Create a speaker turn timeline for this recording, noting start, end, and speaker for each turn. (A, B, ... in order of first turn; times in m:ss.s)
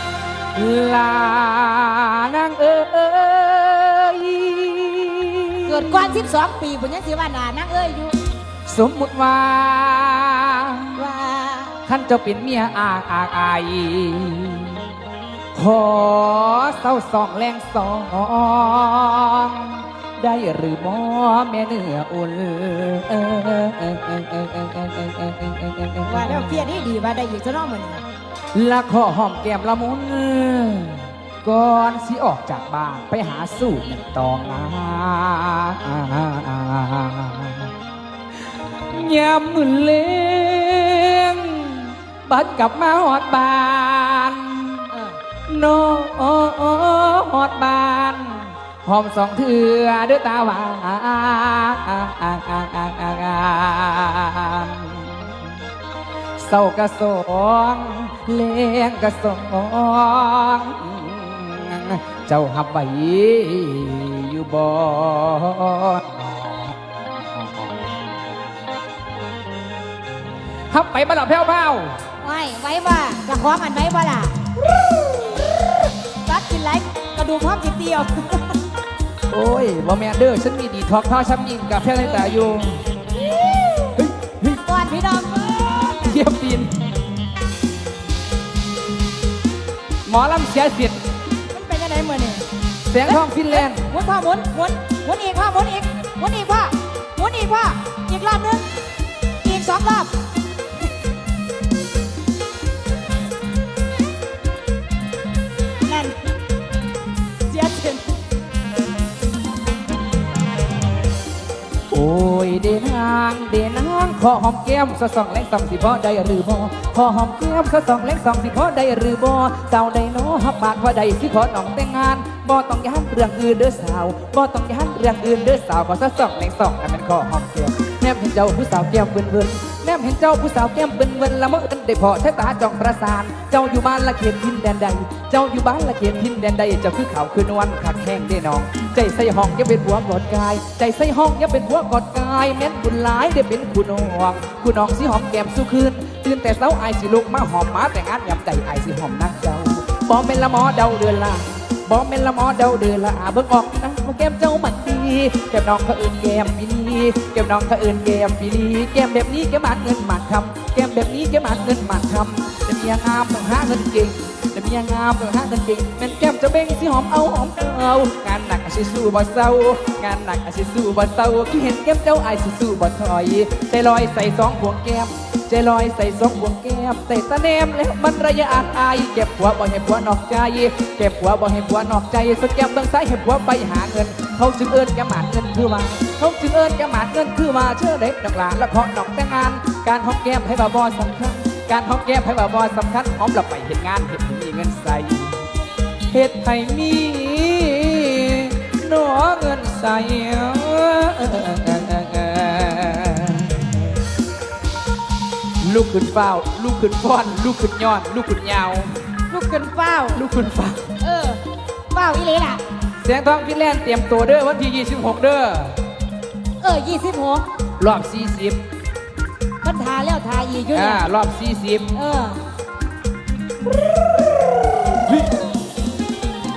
0:00.6-0:06.3 A
0:05.6-0:08.2 B
0:08.7-0:11.0 A
0:11.0-0:11.8 B
0:11.9-0:14.8 A
0:15.6-0:26.6 A
0:26.0-0:28.0 B
0:28.5-0:37.7 A
0:38.9-0:44.9 A
0:44.9-0:45.2 B
0:45.5-0:55.3 A
0:56.4-1:06.8 A
1:07.4-1:07.7 A
1:10.7-1:12.0 A
1:12.2-1:14.4 B
1:16.2-1:18.6 B
1:19.3-1:22.8 A
1:23.8-1:24.6 A
1:24.6-1:26.2 B
1:26.0-1:26.9 A
1:30.1-1:31.0 A
1:31.5-1:32.4 B
1:32.9-1:33.9 A
1:33.0-1:38.7 B
1:39.4-1:40.1 B
1:45.8-1:46.2 B
1:47.5-1:48.1 B
1:51.9-3:15.4 A
3:16.1-3:23.8 A
3:25.6-3:29.0 A
3:29.3-3:30.2 B
3:30.2-3:30.9 A
3:31.0-3:32.6 B
3:33.0-3:35.8 A
3:36.6-3:37.5 B
3:37.8-3:38.6 A
3:39.6-3:41.0 B
3:40.7-3:41.9 A
3:41.9-3:42.4 B
3:44.8-3:45.5 A